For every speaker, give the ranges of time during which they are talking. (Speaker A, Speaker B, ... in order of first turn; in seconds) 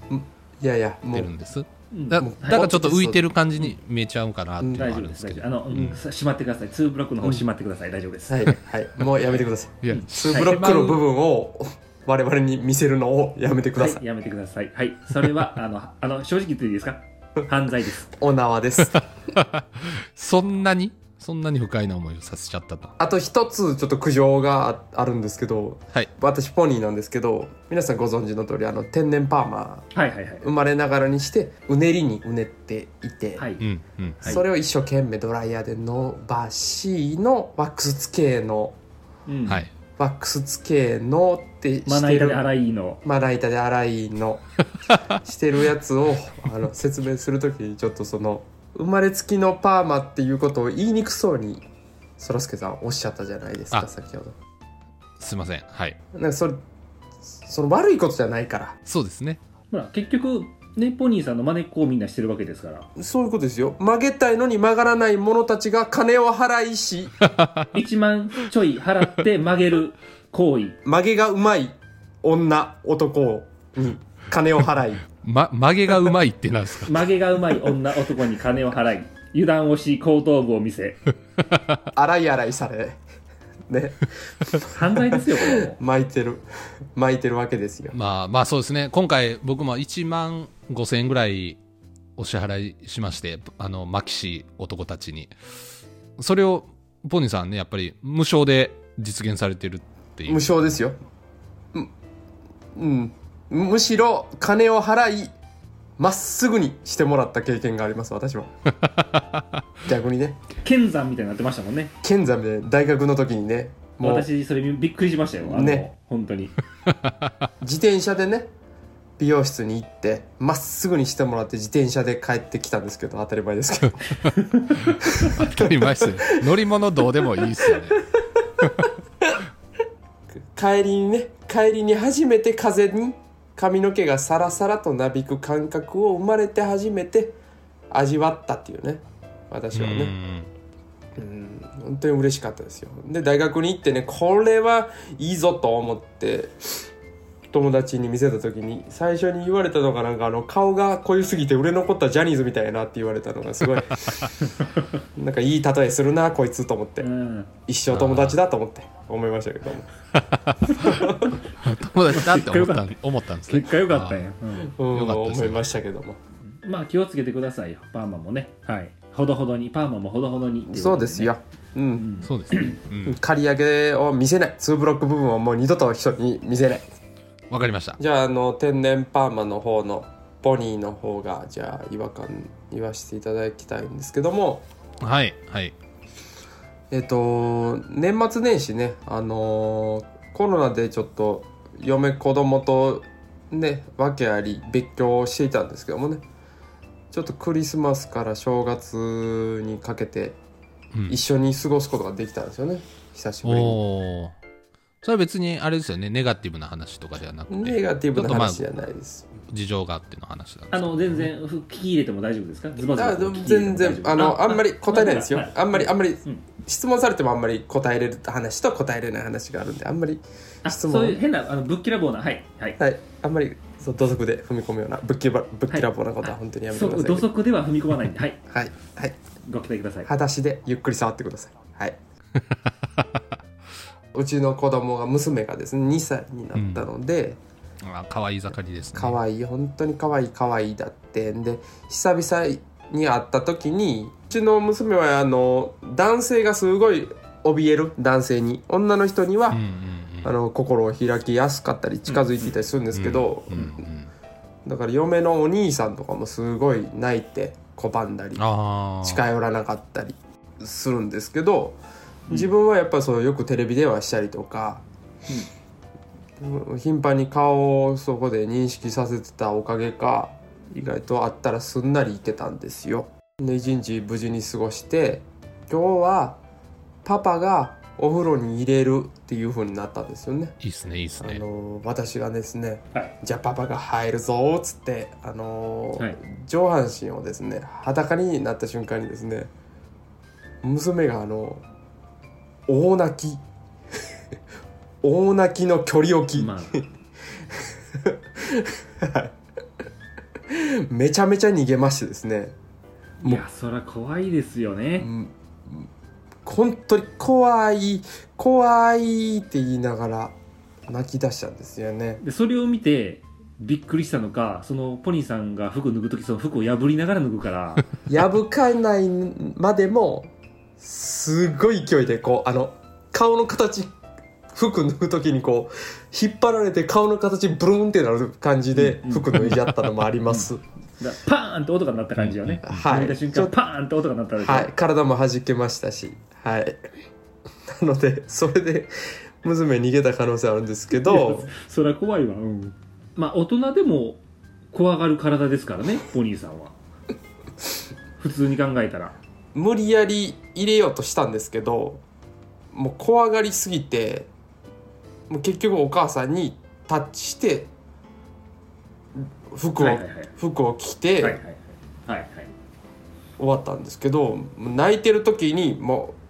Speaker A: 0.1-1.3, 2.2-3.3, 4.6-4.8, 8.3-14.0, 18.1-19.1, 23.0-29.9, 30.4-33.5, 34.2-38.8, 40.0-42.5, 43.0-44.4, 45.1-51.7, 52.2-54.4, 56.1-56.6, 57.4-58.8, 63.0-67.2, 70.8-75.0, 81.9-83.0, 83.7-88.0, 100.3-101.0, 102.7-105.3, 106.0-108.5, 109.8-110.4, 112.0-114.3, 115.4-115.8, 117.6-118.5, 119.2-124.2, 125.2-126.2, 130.4-137.3, 137.9-140.1, 141.2-146.5, 147.5-154.2, 155.2-157.1, 157.7-159.9, 160.8-161.4, 164.7-166.2, 170.7-172.1, 173.0-176.9, 178.0-184.7, 186.9-196.2, 197.1-200.4, 201.1-203.8, 207.5-209.3, 212.8-221.2, 222.8-227.3, 228.5-229.2, 230.0-232.0, 234.1-237.4, 238.9-249.6, 250.2-253.8, 254.7-258.4, 259.0-264.9, 266.4-276.4, 277.0-280.6, 281.2-289.5, 290.6-291.6, 292.7-293.4, 295.0-296.9, 298.1-299.4, 300.5-302.6, 305.0-305.9, 306.4-310.4, 310.9-312.2, 318.1-323.9, 324.5-330.6, 332.6-333.6, 334.4-336.8, 337.7-341.5, 349.5-352.0, 352.7-354.3, 355.3-357.7, 359.1-361.4, 363.4-366.2
Speaker B: 1.1-6.0, 9.8-11.0, 18.8-22.9, 33.6-34.4, 55.2-56.0, 58.9-59.4, 67.4-67.7, 75.2-77.0, 87.9-91.6, 92.2-95.3, 96.2-100.5, 116.9-117.3, 124.7-128.9, 139.7-140.5, 154.0-154.3, 157.9-158.4, 160.2-164.3, 164.9-165.7, 172.2-173.2, 177.5-178.0, 185.0-185.7, 203.4-204.4, 205.0-208.7, 209.5-211.3, 236.5-236.9, 237.8-239.2, 249.5-250.3, 252.9-254.1, 258.4-259.2, 280.6-281.4, 329.3-329.6, 332.2-332.8
Speaker C: 1.9-2.6, 4.8-8.5, 13.8-18.1, 29.9-30.5, 33.4-33.6, 39.3-39.7, 41.9-43.0, 59.7-62.9, 67.7-70.8, 76.8-81.0, 84.7-85.8, 110.6-111.9, 114.0-116.5, 124.2-124.7, 157.0-157.5, 162.1-162.9, 163.5-164.7, 166.6-171.3, 172.0-172.3, 210.7-216.4, 220.6-222.8, 225.7-228.4, 229.5-230.1, 252.1-252.5, 296.4-296.8, 303.2-305.1, 312.2-317.9, 328.8-329.6, 330.3-334.7, 340.9-346.8, 348.2-349.2, 359.8-360.3, 361.2-362.5